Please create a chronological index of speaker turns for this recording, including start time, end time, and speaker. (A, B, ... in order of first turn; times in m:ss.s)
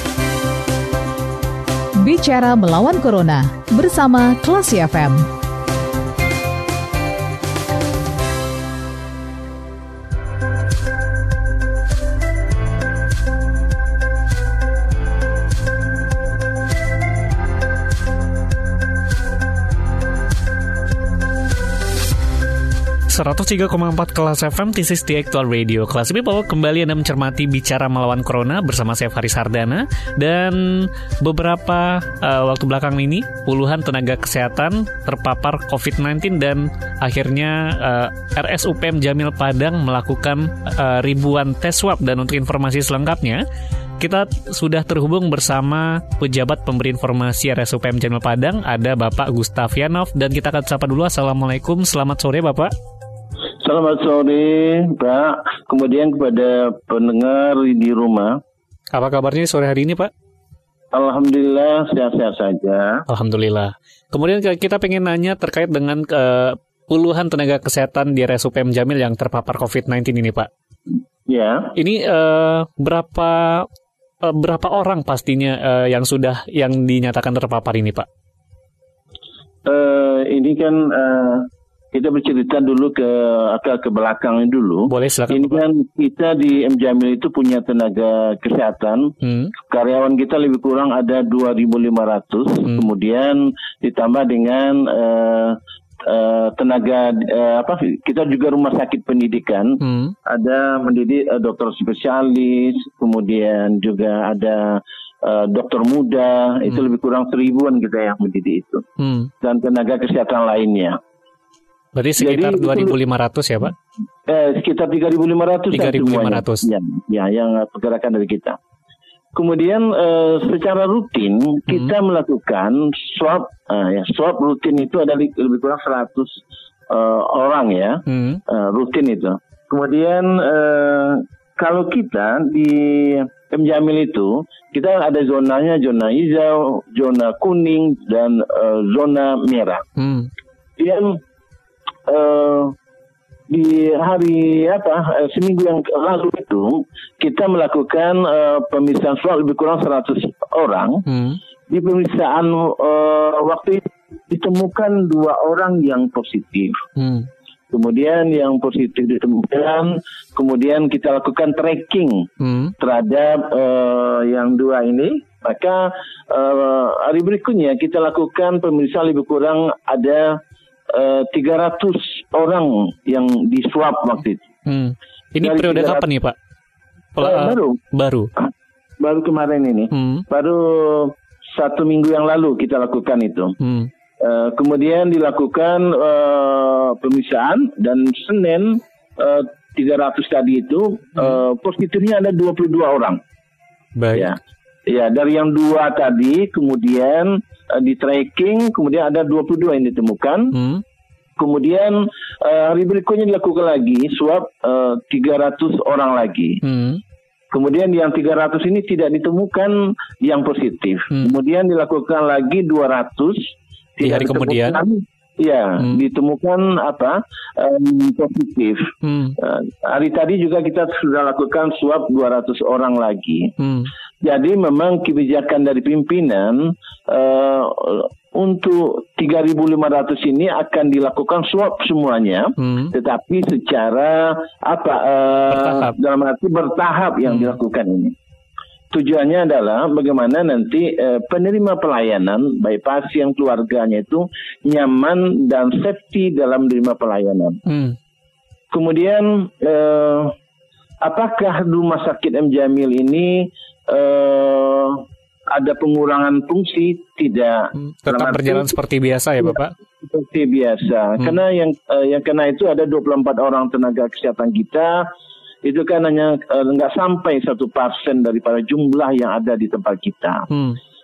0:02.0-0:05.2 A
0:23.1-0:43.4 B
0:44.0-0:52.7 B
0:53.6-0:58.4 C
0:58.9-1:00.1 B
1:00.9-1:03.0 C
1:03.1-1:10.5 B
1:11.3-1:11.8 C
1:11.8-1:13.7 B
1:14.2-1:18.1 B
1:19.6-1:29.1 C
1:24.9-1:25.6 B
1:29.2-1:29.5 B
1:29.7-1:48.8 C
1:39.8-1:40.1 B
1:49.0-1:49.3 B
1:49.4-1:51.0 C
1:51.9-1:53.7 B
1:52.2-1:53.0 C
1:54.3-1:58.6 C
1:55.7-1:56.7 B
1:59.3-2:19.8 C
2:08.1-2:08.4 B
2:20.0-2:20.3 B
2:20.8-2:21.2 C
2:22.1-2:22.7 C
2:23.5-2:31.0 C
2:31.1-2:31.4 B
2:31.7-2:36.8 C
2:37.0-2:37.3 B
2:37.7-2:50.4 C
2:42.4-2:42.7 B
2:50.9-2:54.5 C
2:54.6-2:56.3 B
2:55.4-2:56.0 C
2:57.2-2:58.3 B
2:57.2-2:57.8 C
2:59.0-3:03.5 C
2:59.9-3:00.2 B
3:03.6-3:03.9 B
3:04.2-3:13.2 C
3:14.0-3:14.3 B
3:14.1-3:20.5 C
3:20.5-3:20.8 B
3:21.4-3:26.6 C
3:26.6-3:27.0 B
3:27.5-3:43.5 C
3:34.0-3:34.8 B
3:39.0-3:39.3 B
3:43.6-3:43.9 B
3:44.2-3:58.1 C
3:52.6-3:52.9 B
3:55.5-3:55.9 B
3:58.9-4:07.6 C
4:07.7-4:08.0 B
4:08.7-4:10.3 C
4:11.0-4:18.7 C
4:17.8-4:19.7 B
4:19.5-4:25.0 C
4:25.6-4:30.5 C